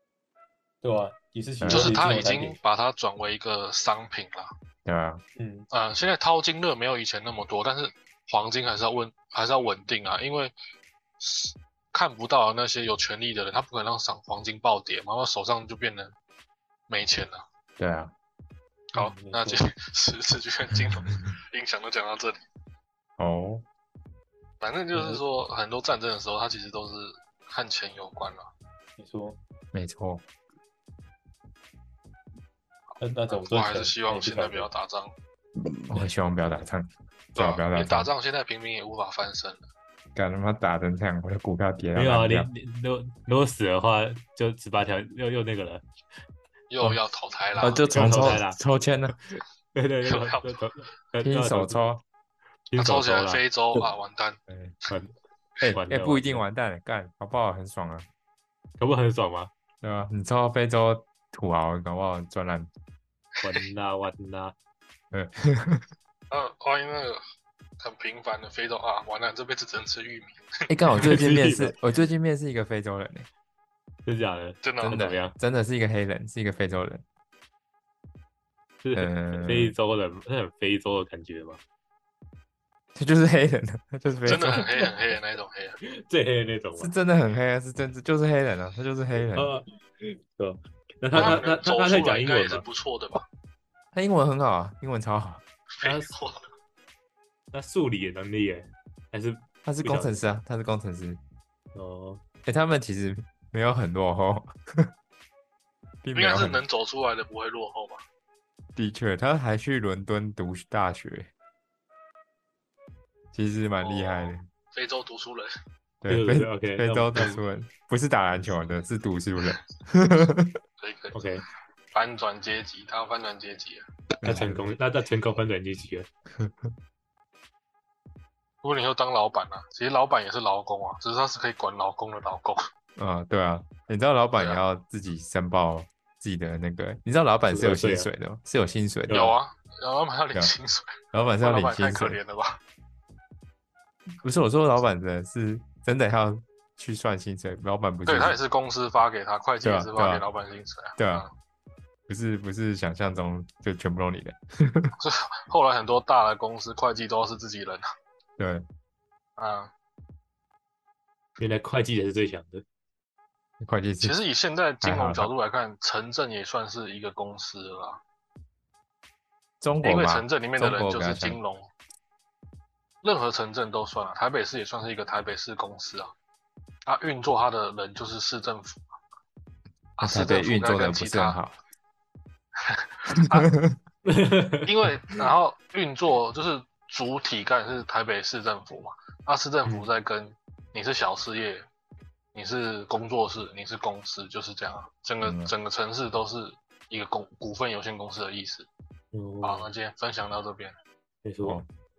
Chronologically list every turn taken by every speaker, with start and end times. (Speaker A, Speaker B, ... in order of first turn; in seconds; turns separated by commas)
Speaker A: 0.8-2.6, Speaker B: 1.6-2.1, Speaker C: 1.7-4.5, Speaker B: 4.8-5.2, Speaker A: 5.3-5.7, Speaker C: 5.7-10.5, Speaker C: 11.2-16.1, Speaker C: 16.9-17.4, Speaker B: 17.8-18.1, Speaker A: 18.9-19.6, Speaker C: 18.9-22.4, Speaker B: 23.2-23.6, Speaker C: 24.6-28.5, Speaker A: 24.9-25.2, Speaker A: 29.0-29.4, Speaker B: 29.7-30.2, Speaker A: 33.0-34.7, Speaker C: 33.3-35.1, Speaker B: 35.9-38.1, Speaker C: 37.3-39.6, Speaker B: 40.1-42.5, Speaker A: 41.9-45.8, Speaker C: 46.7-48.4, Speaker B: 47.6-49.1, Speaker A: 47.9-48.6, Speaker A: 49.3-51.8, Speaker C: 50.0-50.5, Speaker B: 51.2-52.0, Speaker A: 52.7-53.4, Speaker C: 52.8-54.4, Speaker B: 54.5-54.7, Speaker B: 55.6-58.1, Speaker A: 55.7-56.4, Speaker A: 58.8-59.5, Speaker B: 59.8-62.7, Speaker A: 63.4-64.5, Speaker B: 65.1-65.8, Speaker C: 66.3-67.2, Speaker C: 67.8-70.3, Speaker B: 70.7-73.3, Speaker A: 71.0-71.7, Speaker A: 74.0-75.3, Speaker C: 74.6-75.0, Speaker B: 74.8-77.0, Speaker A: 78.8-81.6, Speaker B: 78.9-79.7, Speaker B: 82.9-84.7, Speaker C: 84.2-85.8, Speaker A: 85.9-86.9, Speaker B: 86.8-89.5, Speaker A: 89.3-92.6, Speaker C: 91.1-93.2, Speaker B: 91.1-91.4, Speaker B: 93.9-95.4, Speaker A: 95.8-96.2, Speaker C: 95.8-96.4, Speaker A: 97.5-100.2, Speaker B: 99.6-101.2, Speaker A: 101.7-102.2, Speaker B: 102.5-104.9, Speaker B: 106.0-106.6, Speaker C: 106.1-108.0, Speaker B: 108.8-111.3, Speaker B: 113.3-114.5, Speaker C: 113.8-115.5, Speaker B: 116.0-120.6, Speaker A: 116.1-117.4, Speaker C: 120.8-121.2, Speaker A: 121.1-121.4, Speaker C: 121.9-123.8, Speaker B: 124.2-124.6, Speaker A: 124.2-126.1, Speaker B: 126.4-126.7, Speaker C: 128.6-132.7, Speaker B: 133.0-139.3, Speaker C: 134.3-134.6, Speaker A: 137.5-138.1, Speaker C: 139.1-142.6, Speaker B: 141.1-142.2, Speaker B: 144.2-148.4, Speaker C: 148.1-151.3, Speaker B: 149.6-150.2, Speaker B: 151.0-151.2, Speaker B: 152.1-154.9, Speaker C: 155.0-157.8, Speaker B: 158.4-158.6, Speaker C: 159.4-159.7, Speaker A: 161.4-162.6, Speaker B: 163.6-164.2, Speaker C: 164.0-168.0, Speaker B: 164.8-165.3, Speaker B: 169.6-171.4, Speaker C: 169.8-171.7, Speaker C: 173.0-176.1, Speaker C: 176.8-178.8, Speaker C: 180.0-181.4, Speaker B: 180.0-181.6, Speaker C: 182.7-183.5, Speaker B: 183.2-183.8, Speaker A: 184.0-184.7, Speaker C: 184.7-191.7, Speaker C: 192.3-198.7, Speaker B: 195.2-195.5, Speaker A: 199.1-199.7, Speaker C: 199.4-200.7, Speaker A: 201.2-201.6